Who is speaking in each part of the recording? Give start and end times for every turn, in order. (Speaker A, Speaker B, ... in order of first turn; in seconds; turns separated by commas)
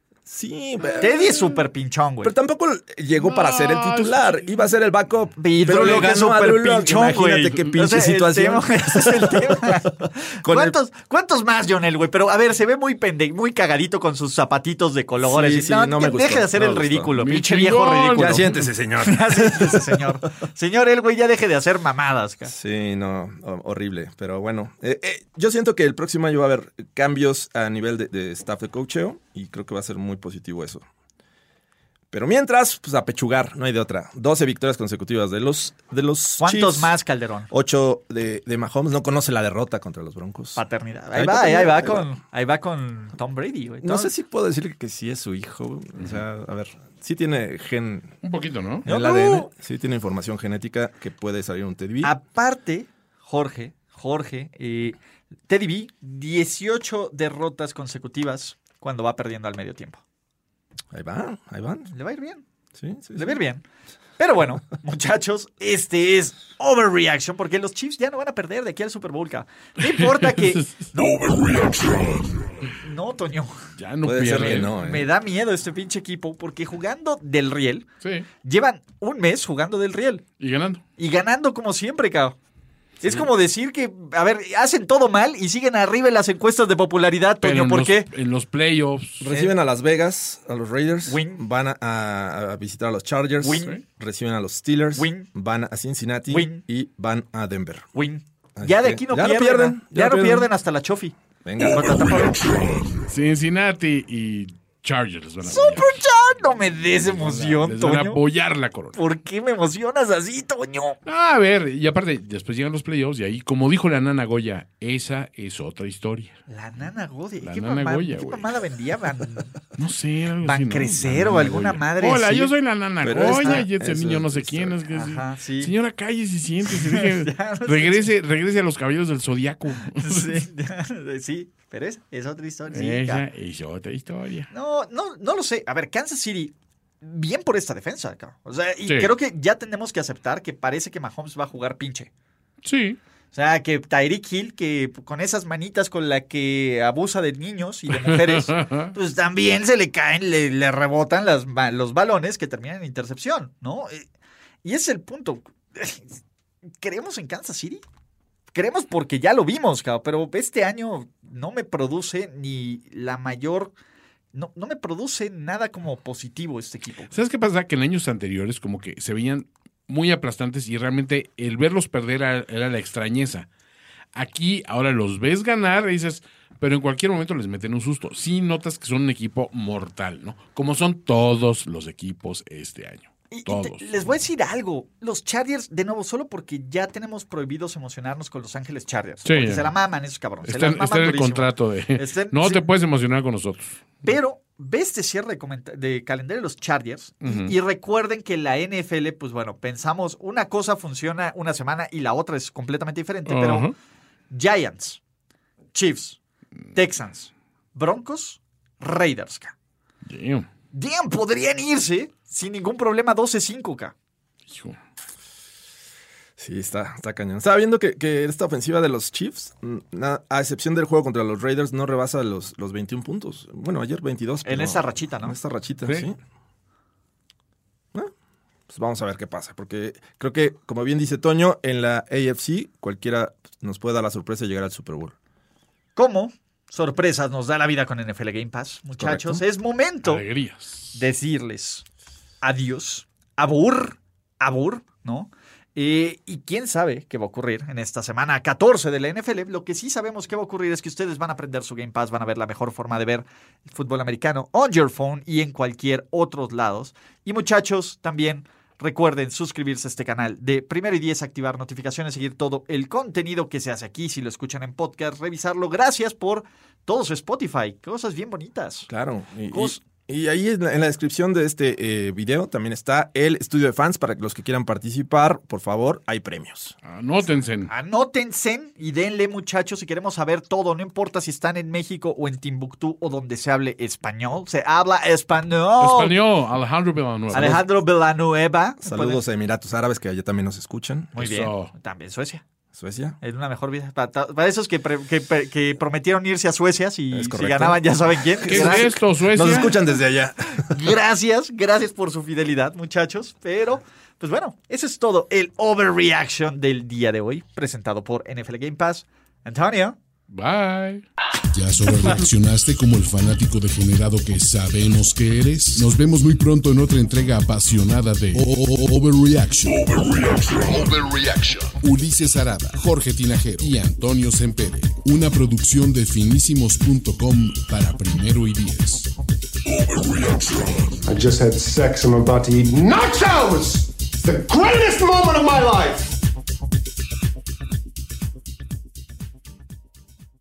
Speaker A: 0.3-1.6, Speaker B: 0.9-2.3, Speaker A: 2.2-10.8, Speaker C: 3.2-4.6, Speaker B: 5.4-18.5, Speaker A: 15.2-17.1, Speaker C: 17.2-18.7, Speaker A: 18.2-20.1, Speaker B: 19.0-22.5, Speaker A: 22.5-30.9, Speaker A: 32.1-36.9, Speaker B: 36.4-37.5, Speaker A: 37.5-40.6, Speaker B: 40.6-44.1, Speaker A: 41.1-42.1, Speaker A: 43.8-48.2, Speaker C: 48.2-48.9, Speaker A: 48.9-52.1, Speaker B: 48.9-49.5, Speaker B: 52.0-55.0, Speaker B: 55.5-60.0, Speaker A: 60.9-61.9, Speaker B: 61.9-62.4, Speaker A: 62.7-63.4, Speaker B: 63.2-63.6, Speaker B: 64.2-71.3, Speaker C: 69.9-70.7, Speaker D: 71.0-72.5, Speaker B: 72.7-73.6, Speaker C: 73.8-74.8, Speaker A: 74.0-75.1, Speaker B: 74.6-77.9, Speaker C: 78.0-78.3, Speaker B: 78.4-80.2, Speaker C: 80.4-80.8, Speaker B: 81.0-82.4, Speaker B: 83.0-88.1, Speaker C: 87.4-89.3, Speaker A: 89.2-97.9, Speaker B: 89.3-89.6, Speaker B: 91.1-91.4, Speaker B: 93.4-93.8, Speaker B: 95.0-95.3, Speaker B: 96.3-96.6, Speaker B: 97.9-101.2, Speaker A: 98.6-100.5, Speaker A: 101.5-102.3, Speaker B: 101.7-102.5, Speaker C: 103.1-106.0, Speaker B: 105.4-108.2, Speaker C: 107.0-109.0, Speaker B: 109.0-111.0, Speaker C: 111.1-116.4, Speaker B: 116.5-119.5, Speaker C: 117.4-118.6, Speaker C: 119.8-130.4, Speaker B: 120.4-122.5, Speaker A: 123.0-124.8, Speaker B: 123.2-123.7, Speaker B: 124.9-125.7, Speaker B: 126.8-128.1, Speaker B: 129.9-133.2, Speaker C: 132.7-134.5, Speaker B: 134.5-142.1, Speaker C: 138.9-139.1, Speaker C: 142.6-143.0, Speaker B: 143.3-154.1, Speaker C: 148.0-148.9, Speaker B: 154.6-156.2, Speaker B: 156.8-157.8, Speaker B: 158.5-163.7, Speaker B: 164.3-167.1, Speaker C: 167.1-173.5, Speaker C: 174.1-184.0, Speaker B: 183.3-192.6, Speaker C: 189.2-189.7, Speaker C: 190.4-194.0, Speaker B: 194.0-203.7, Speaker C: 197.2-197.6, Speaker C: 203.3-203.7, Speaker B: 204.3-205.0, Speaker B: 205.7-206.2, Speaker B: 206.7-209.5, Speaker C: 210.1-210.5, Speaker B: 210.7-213.9, Speaker C: 214.5-214.8, Speaker A: 216.4-226.2, Speaker B: 224.4-225.4, Speaker A: 228.7-235.2, Speaker B: 236.0-240.2, Speaker A: 239.0-239.4, Speaker C: 240.0-241.0, Speaker B: 240.9-241.8, Speaker B: 242.4-268.9, Speaker A: 268.9-276.8, Speaker B: 269.5-269.8, Speaker C: 276.9-277.7, Speaker B: 277.7-286.2, Speaker C: 285.8-287.6, Speaker A: 287.3-287.6, Speaker B: 287.3-289.2, Speaker A: 288.8-291.1, Speaker B: 291.1-292.4, Speaker C: 291.2-291.7, Speaker A: 292.7-293.2, Speaker B: 293.2-298.9, Speaker A: 297.1-297.8, Speaker A: 298.4-300.9, Speaker C: 298.4-299.8, Speaker B: 300.6-310.0, Speaker C: 310.3-311.1, Speaker D: 311.5-329.1, Speaker D: 329.7-330.9, Speaker E: 331.1-336.2